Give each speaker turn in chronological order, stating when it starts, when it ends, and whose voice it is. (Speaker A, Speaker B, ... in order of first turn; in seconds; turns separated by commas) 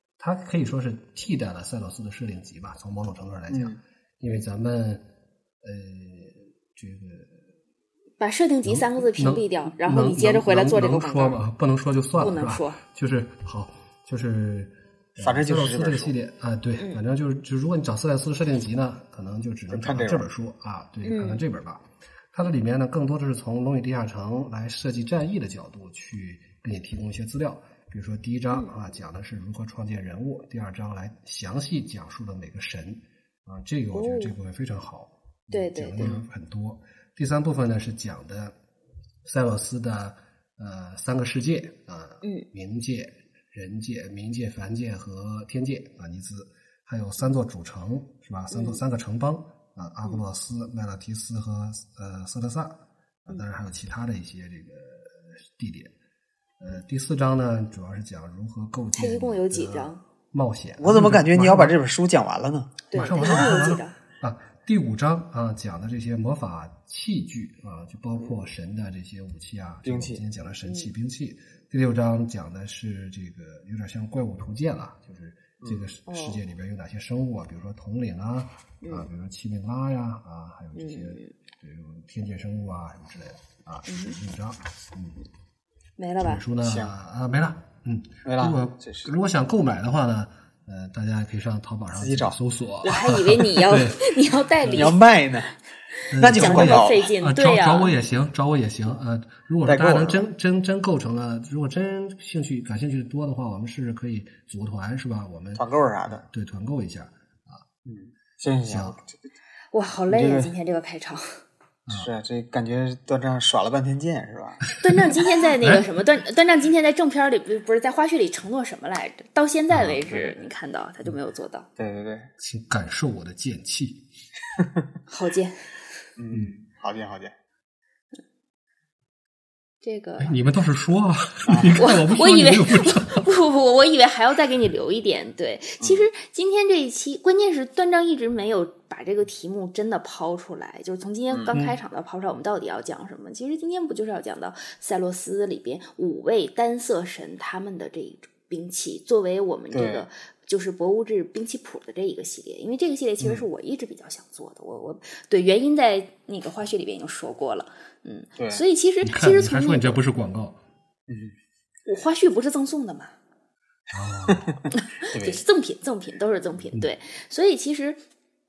Speaker A: 0.2-5.0, Speaker B: 3.5-3.8, Speaker A: 5.6-7.4, Speaker C: 8.2-11.4, Speaker A: 8.6-38.5, Speaker C: 12.2-12.8, Speaker B: 15.2-16.1, Speaker B: 19.7-20.3, Speaker C: 21.0-21.4, Speaker C: 33.9-34.4, Speaker C: 35.5-36.1, Speaker B: 36.0-36.2, Speaker A: 39.2-55.9, Speaker C: 42.2-42.5, Speaker C: 48.5-48.8, Speaker A: 56.6-61.8, Speaker C: 58.9-60.0, Speaker B: 60.8-63.6, Speaker C: 62.9-64.0, Speaker A: 62.9-85.2, Speaker B: 69.8-70.2, Speaker C: 70.6-70.9, Speaker B: 75.6-75.9, Speaker C: 76.0-76.4, Speaker C: 78.8-79.1, Speaker C: 80.7-81.3, Speaker C: 83.9-84.2, Speaker C: 86.0-86.4, Speaker A: 86.2-94.0, Speaker B: 86.6-86.9, Speaker B: 88.2-89.1, Speaker B: 91.9-92.4, Speaker C: 92.8-95.0, Speaker A: 94.6-94.9, Speaker B: 94.7-95.5, Speaker A: 96.1-107.6, Speaker B: 96.2-97.0, Speaker C: 96.3-97.9, Speaker B: 99.7-100.2, Speaker B: 105.5-106.2, Speaker B: 107.8-109.2, Speaker A: 108.7-109.0, Speaker C: 109.7-111.2, Speaker B: 110.1-110.5, Speaker B: 111.9-114.6, Speaker C: 114.8-121.7, Speaker A: 115.1-115.8, Speaker A: 119.7-120.1, Speaker B: 121.8-122.3, Speaker A: 122.4-124.0, Speaker C: 125.1-125.7, Speaker B: 126.2-127.3, Speaker C: 129.8-130.4, Speaker A: 130.2-133.2, Speaker B: 131.5-131.8, Speaker C: 131.8-160.0, Speaker B: 135.8-136.1, Speaker B: 149.7-150.1, Speaker B: 153.2-153.4, Speaker B: 158.4-158.6, Speaker A: 159.0-160.6, Speaker B: 161.1-161.3, Speaker C: 161.8-163.1, Speaker A: 163.9-164.5, Speaker B: 164.3-165.4, Speaker C: 164.7-168.0